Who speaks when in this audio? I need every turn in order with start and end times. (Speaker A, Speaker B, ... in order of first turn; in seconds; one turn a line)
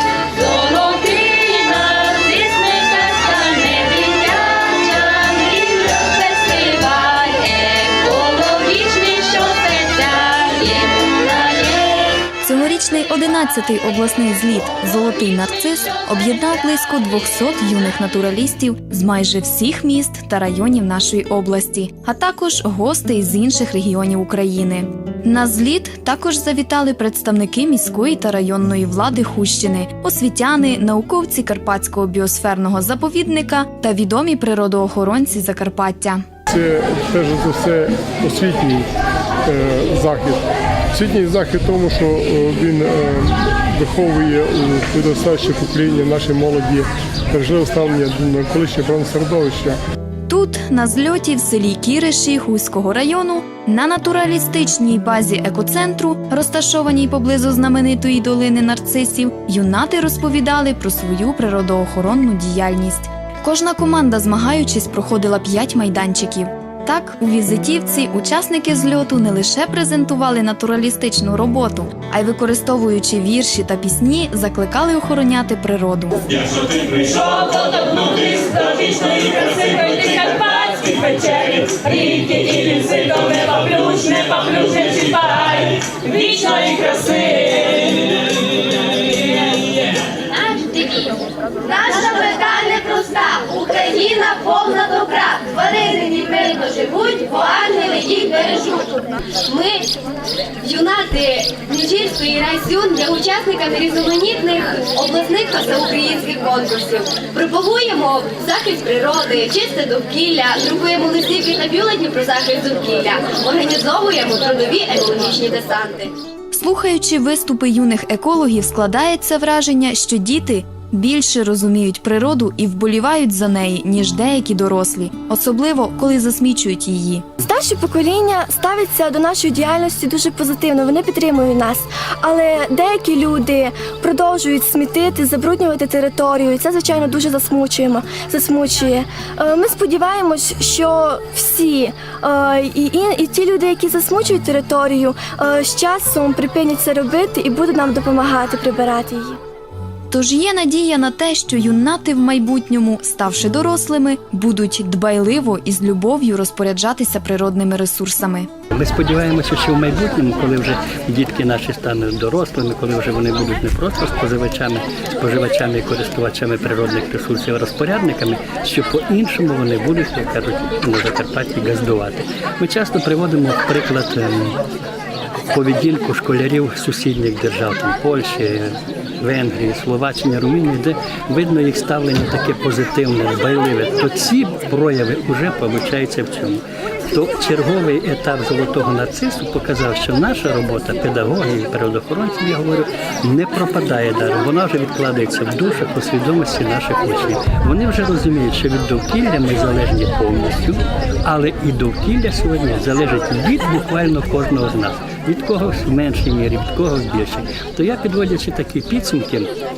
Speaker A: 0.4-12.2
Speaker B: 12.4-36.2
Speaker C: 36.5-38.9
Speaker C: 39.5-49.8
Speaker B: 50.3-76.4
Speaker D: 77.0-87.5
Speaker A: 90.3-99.9
Speaker A: 100.6-116.1
Speaker B: 116.5-127.3
Speaker E: 127.4-149.4
Speaker B: 150.1-158.5
Speaker F: 158.7-174.6
Speaker F: 175.5-209.5